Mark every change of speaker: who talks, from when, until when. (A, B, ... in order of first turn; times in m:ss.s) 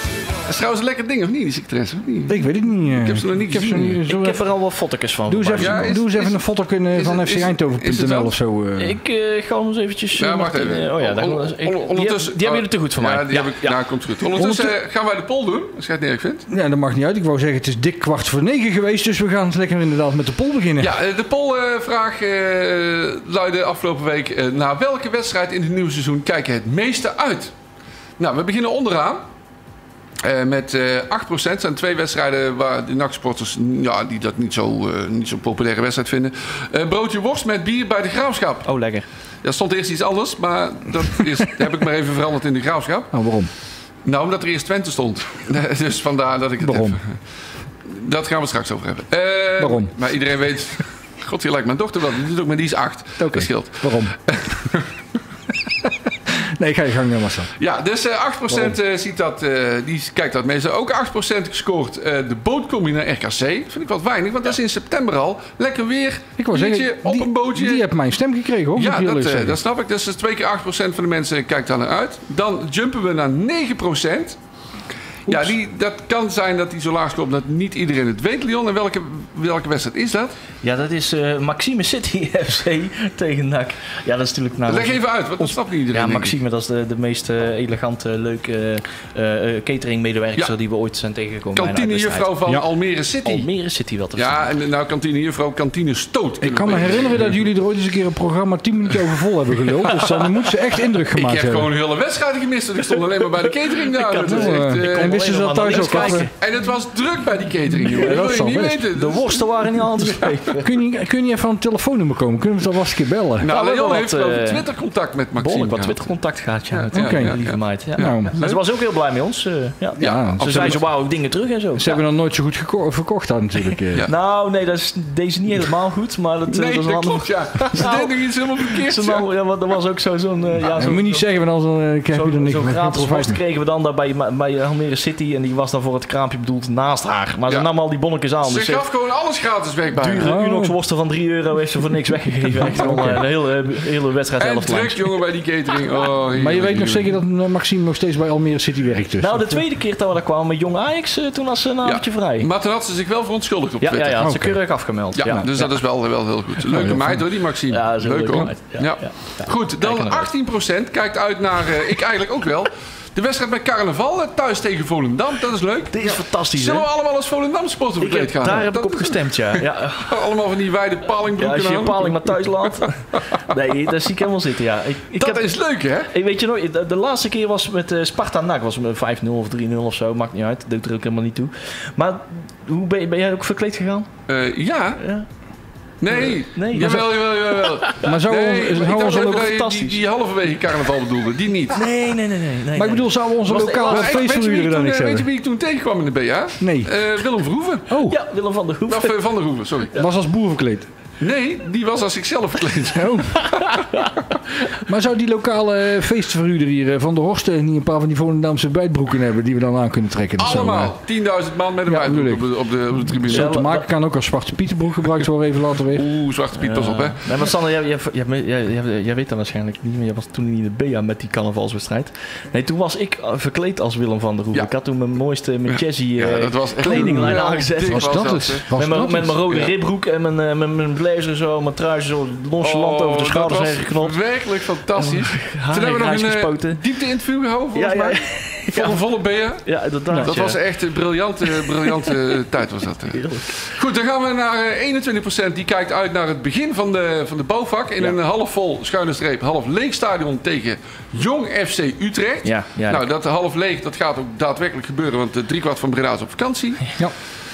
0:00.5-0:04.0 A
0:02.3-0:04.4 B
0:04.1-0:05.9 C
0:05.3-0:09.0 B
0:05.6-0:08.4 A
0:08.8-0:13.8 C
0:10.2-0:16.4 A
0:14.4-0:14.7 B
0:16.5-0:20.9 B
0:20.8-0:27.5 A
0:28.2-0:29.2 A
0:30.2-0:38.7 A
0:38.6-0:39.0 C
0:39.4-0:43.1 A
0:43.1-0:43.5 B
0:44.0-0:47.2 A
0:46.6-0:47.0 B
0:47.8-0:54.9 A
0:49.6-0:49.9 B
0:53.2-0:54.1 B
0:55.8-0:57.5 B
0:57.6-1:07.9 A
1:06.4-1:09.6 B
1:08.8-1:14.4 A
1:15.3-1:15.5 B
1:15.3-1:20.4 A
1:20.6-1:32.3 C
1:24.7-1:26.3 A
1:31.6-1:33.5 A
1:33.2-1:34.5 C
1:34.1-1:37.5 A
1:36.4-1:41.7 B
1:39.7-1:40.5 A
1:41.1-1:50.3 A
1:43.5-1:46.3 C
1:44.3-1:46.3 B
1:47.8-1:48.8 B
1:47.9-1:50.7 C
1:50.6-1:53.5 B
1:53.4-1:56.1 A
1:53.5-1:54.7 C
1:55.4-2:02.0 C
1:56.7-1:58.6 A
1:56.9-1:57.4 B
1:58.0-1:58.3 B
2:00.0-2:00.8 B
2:00.0-2:00.8 A
2:01.8-2:04.1 B
2:04.0-2:08.2 C
2:06.5-2:09.3 A
2:08.7-2:11.3 C
2:10.7-2:13.4 B
2:12.1-2:18.8 C
2:18.4-2:20.3 A
2:20.0-2:25.1 C
2:20.1-2:20.8 B
2:22.6-2:23.2 B
2:24.4-2:27.1 A
2:26.3-2:29.6 B
2:29.2-2:32.5 C
2:31.8-2:34.3 A
2:33.8-2:35.8 C
2:34.2-2:35.5 B
2:35.2-2:52.3 A
2:36.6-2:37.2 B
2:37.7-2:40.3 C
2:45.9-2:46.9 C
2:48.0-2:50.3 C
2:51.3-2:55.5 C
2:55.2-2:56.1 A
2:56.1-3:04.1 C
3:04.3-3:05.0 A
3:05.0-3:05.3 C
3:06.0-3:11.9 A
3:06.1-3:08.1 C
3:06.8-3:07.1 B
3:08.0-3:09.5 B
3:08.7-3:10.0 C
3:11.7-3:14.2 C
3:12.8-3:15.3 B
3:13.9-3:18.0 A
3:16.6-3:17.0 B
3:17.9-3:18.2 B
3:18.1-3:19.2 C
3:18.9-3:20.0 A
3:19.9-3:20.9 B
3:21.2-3:24.0 A
3:22.9-3:23.3 B
3:23.7-3:24.1 C
3:24.8-3:31.0 B
3:30.4-3:33.5 A
3:31.9-3:32.5 B
3:33.2-3:36.0 B
3:33.3-3:33.9 C
3:35.9-3:37.4 A
3:36.6-3:56.8 C
3:45.7-3:48.8 A
3:46.8-3:49.4 B
3:52.6-4:17.0 A
3:57.7-3:59.1 C
3:59.6-4:00.6 C
4:01.7-4:02.1 C
4:03.1-4:03.6 C
4:12.4-4:13.0 C